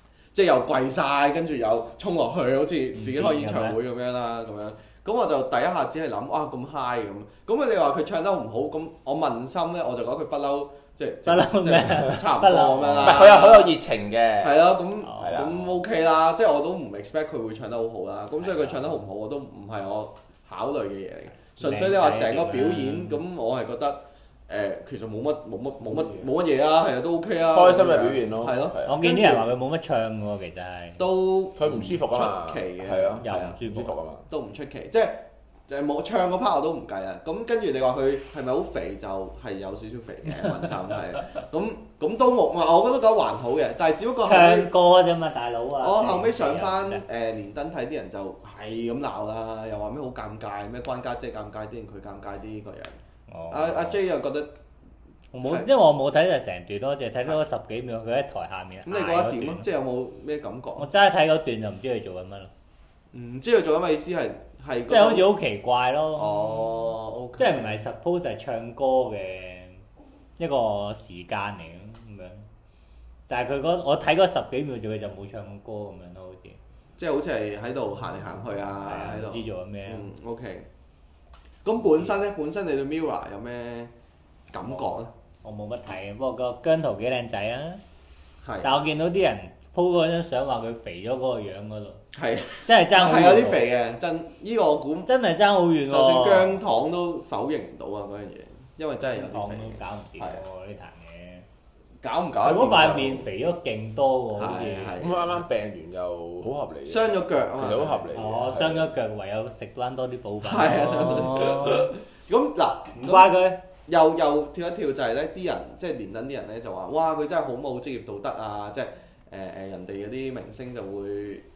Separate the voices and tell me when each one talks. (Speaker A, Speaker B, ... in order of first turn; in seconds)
Speaker A: 0.3-13.7, 14.4-29.5, 31.0-33.6, 34.3-44.7, 45.8-53.0, 53.5-54.5, 55.4-55.7, 58.9-60.9, 63.1-65.3, 66.2-67.8, 77.0-80.7, 81.6-83.9, 84.5-85.1, 88.4-88.8, 92.1-95.1, 95.9-100.4, 102.0-103.3, 104.3-105.4, 106.9-108.1, 110.4-113.3, 113.9-121.5
Speaker B: 3.0-3.8, 11.2-13.4, 15.0-15.4, 18.4-18.9, 21.6-23.2, 28.9-31.0, 33.2-33.9, 40.4-40.6, 44.2-47.0, 53.3-54.0, 55.3-59.6, 60.8-62.5, 64.9-66.7, 67.4-69.8, 70.4-72.5, 73.3-76.6, 78.8-80.1, 84.7-87.8, 88.6-92.0, 92.6-93.6, 95.1-96.6, 99.1-101.5, 102.4-105.0, 108.1-111.9, 113.0-113.6
Speaker C: 13.0-15.7, 25.9-26.3, 27.5-28.9, 31.6-34.2, 105.0-108.9